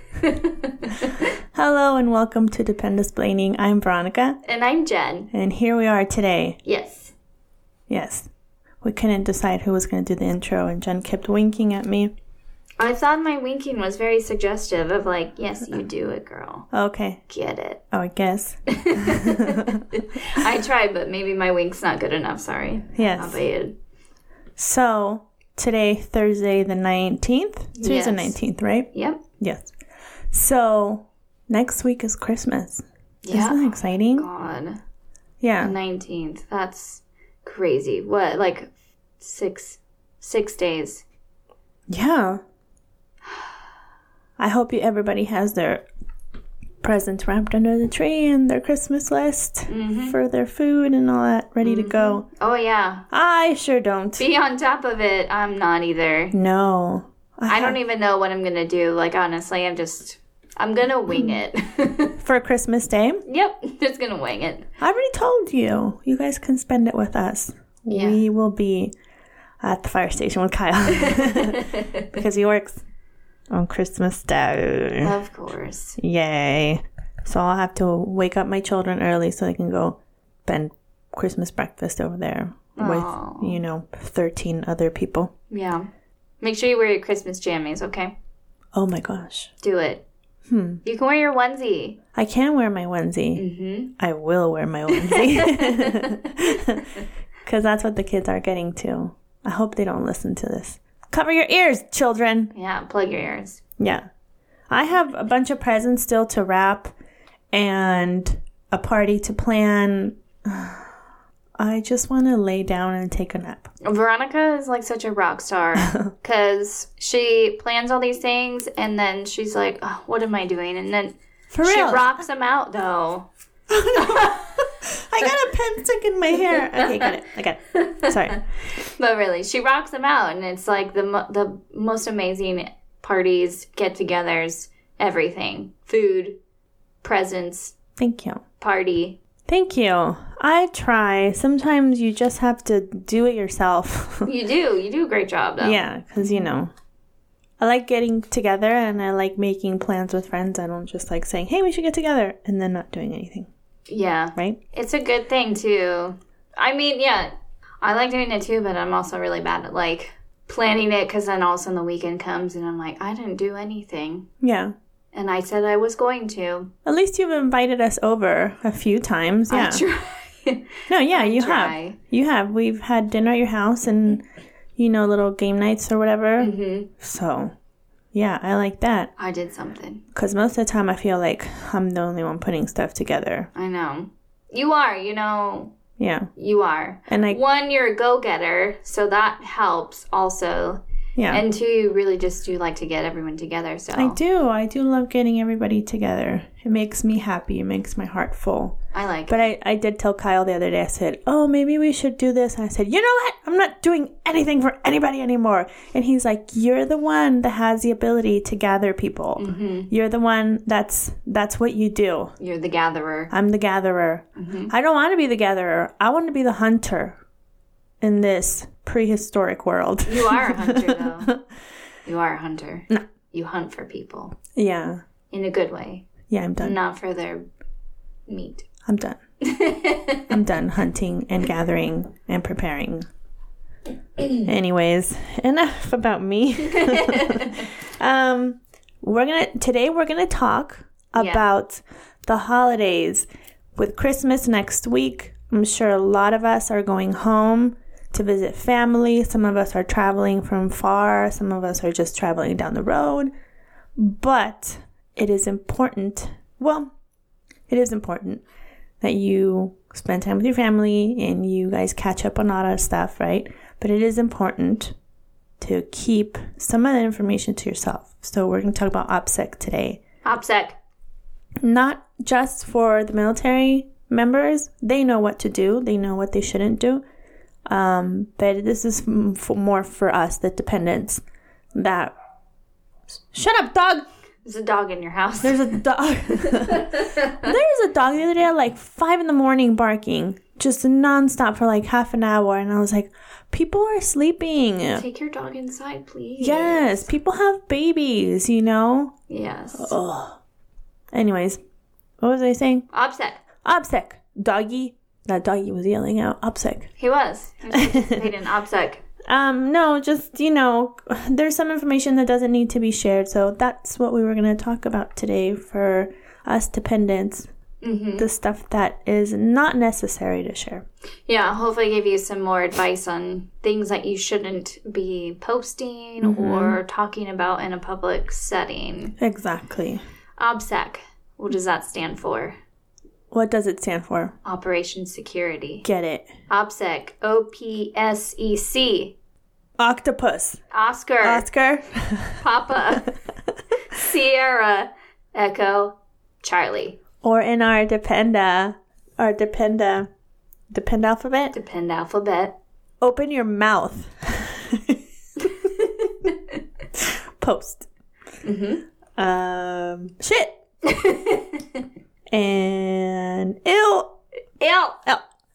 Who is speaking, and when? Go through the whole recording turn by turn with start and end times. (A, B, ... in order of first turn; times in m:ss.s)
0:00.2-0:01.1 A
0:01.5-0:04.4 B
0:04.4-0:05.3 A
0:05.3-0:06.6 B
0:06.6-0:07.1 A
0:07.9-0:08.3 B
0:08.8-0:12.1 B
0:12.8-0:16.7 A
0:16.7-0:17.2 B
0:17.3-0:17.8 A
0:17.9-0:19.8 B
0:18.7-0:23.7 A
0:22.9-0:23.4 B
0:24.6-0:29.7 B
0:27.8-0:28.4 A
0:28.9-0:29.2 A
0:30.3-0:34.3 B
0:33.2-0:34.8 A
0:35.4-0:35.7 B
0:35.6-0:41.0 A
0:41.9-0:42.4 B
0:44.4-0:45.8 B
0:46.8-0:52.2 B
0:49.7-0:50.1 A
0:51.6-0:53.0 A
0:53.1-0:54.2 B
0:54.2-0:56.3 A
0:56.3-0:57.8 B
0:57.5-1:02.2 A
1:02.2-1:03.2 B
1:03.2-1:04.7 A
1:04.8-1:08.9 B
1:07.9-1:08.2 A
1:09.6-1:12.8 B
1:11.0-1:12.0 A
1:13.5-1:15.2 B
1:15.0-1:16.0 A
1:16.0-1:25.3 B
1:22.8-1:23.6 A
1:25.5-1:25.9 A
1:26.4-1:28.1 A
1:28.7-1:29.5 B
1:29.6-1:30.0 A
1:30.5-1:30.8 B
1:30.8-1:32.0 A
1:32.1-1:33.4 B
1:33.4-1:33.9 A
1:34.0-1:42.5 B
1:34.9-1:36.3 A
1:42.5-1:43.6 A
1:43.8-1:44.0 B
1:44.7-1:46.9 B
1:47.5-1:50.9 B
1:51.6-1:53.7 B
1:53.8-2:03.3 A
1:55.8-1:56.1 B
2:01.5-2:02.1 B
2:03.7-2:08.4 B
2:04.0-2:04.4 A
2:06.5-2:07.1 A
2:07.7-2:08.4 A
2:09.0-2:16.4 A
2:17.0-2:17.7 A
2:18.0-2:18.4 B
2:18.6-2:19.2 A
2:19.5-2:24.3 B
2:24.2-2:26.4 A
2:25.6-2:26.7 B
2:27.6-2:33.5 B
2:33.9-2:44.3 A
2:44.4-2:44.7 B
2:45.1-2:46.7 A
2:46.8-2:49.8 B
2:49.5-2:52.0 A
2:50.9-2:54.2 B
2:54.8-2:57.5 B
2:56.4-2:56.9 A
2:58.1-2:59.1 B
2:59.2-3:00.0 A
3:00.1-3:03.5 B
3:03.5-3:05.7 A
3:06.0-3:06.3 B
3:06.4-3:14.2 A
3:07.1-3:07.4 B
3:11.2-3:11.4 B
3:13.9-3:18.8 B
3:18.9-3:19.5 A
3:19.3-3:32.3 B
3:29.4-3:29.9 A
3:32.4-3:33.3 A
3:33.3-3:37.2 B
3:34.4-3:34.7 A
3:38.0-3:41.4 B
3:40.1-3:41.3 A
3:42.0-3:44.4 A
3:44.5-3:45.0 B
3:45.3-3:46.0 A
3:46.3-3:46.8 B
3:46.6-3:47.4 A
3:48.3-3:48.6 A
3:48.8-3:49.2 B
3:49.4-3:50.3 A
3:50.3-3:53.1 B
3:54.4-4:13.3 B
3:56.8-3:57.5 A
4:01.2-4:01.4 A
4:14.0-4:16.9 B
4:17.7-4:18.4 B
4:19.0-4:24.9 B
4:25.6-4:30.0 B
4:30.2-4:30.8 A
4:31.6-4:37.0 B
4:37.7-4:41.2 B
4:41.7-4:42.1 B
4:43.3-4:44.0 B
4:44.4-4:45.8 A
4:45.4-4:55.0 B
4:46.4-4:47.5 A
4:54.9-4:57.1 A
4:56.4-4:59.1 B
4:59.3-4:59.9 A
4:59.8-5:00.4 B
5:01.1-5:01.6 B
5:02.2-5:02.8 B
5:02.9-5:03.4 A
5:03.6-5:06.9 B
5:07.0-5:09.0 A
5:07.7-5:08.3 B
5:09.3-5:17.5 B
5:17.8-5:18.3 A
5:18.2-5:20.8 B
5:21.3-5:29.1 A
5:26.2-5:26.8 B
5:29.2-5:30.0 B
5:30.4-5:32.6 A
5:33.3-5:34.3 B
5:34.4-5:35.8 A
5:35.8-5:36.3 B
5:36.5-5:39.1 A
5:39.8-5:40.6 B
5:40.7-5:41.4 A
5:41.2-5:42.4 B
5:42.4-5:43.1 A
5:43.9-5:47.0 A
5:47.2-5:50.1 B
5:50.7-5:51.5 B
5:51.5-5:52.6 A
5:53.0-5:55.0 B
5:56.9-5:57.9 B
5:58.4-5:58.8 A
5:59.2-6:00.6 B
6:00.8-6:01.8 A
6:02.3-6:04.2 B
6:04.6-6:05.0 A